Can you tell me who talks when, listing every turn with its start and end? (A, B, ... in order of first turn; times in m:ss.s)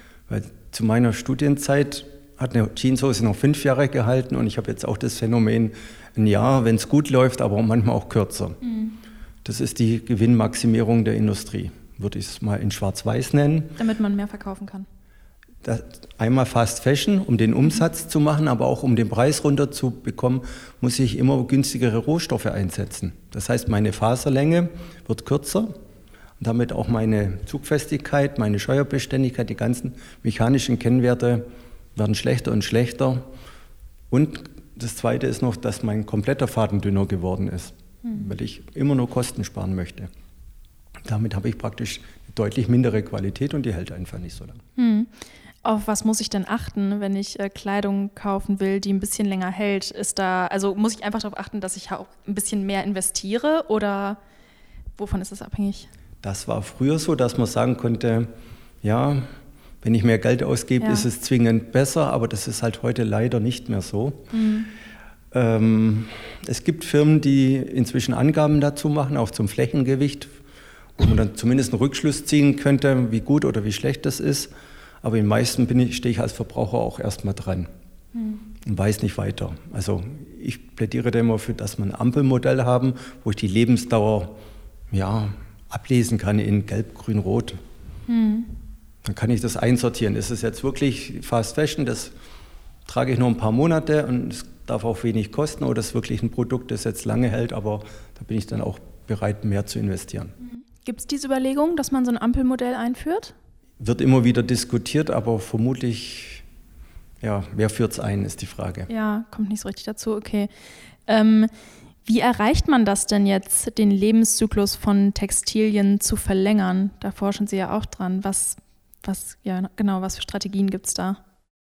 0:00.3-0:08.6 A
0:08.6-0:09.0 B
0:09.4-0:13.8 A
0:13.8-0:14.9 B
0:15.6-0:25.7 A
0:26.4-0:33.3 A
0:34.1-0:40.1 A
0:41.0-0:44.6 A
0:44.8-0:45.1 B
0:45.6-0:54.2 B
0:55.0-0:55.9 B
0:56.2-0:58.3 A
0:58.8-0:59.2 A
0:59.8-1:04.2 A
1:00.8-1:01.0 B
1:04.3-1:04.7 B
1:05.3-1:10.3 A
1:11.0-1:14.5 A
1:15.0-1:17.7 A
1:18.6-1:24.4 A
1:24.9-1:27.6 A
1:28.1-1:28.5 B
1:29.0-1:32.1 A
1:32.8-1:40.3 A
1:40.6-1:43.3 B
1:43.8-1:46.4 A
1:47.2-1:48.9 A
1:48.9-1:50.5 B
1:51.1-1:51.5 B
1:52.0-2:01.2 B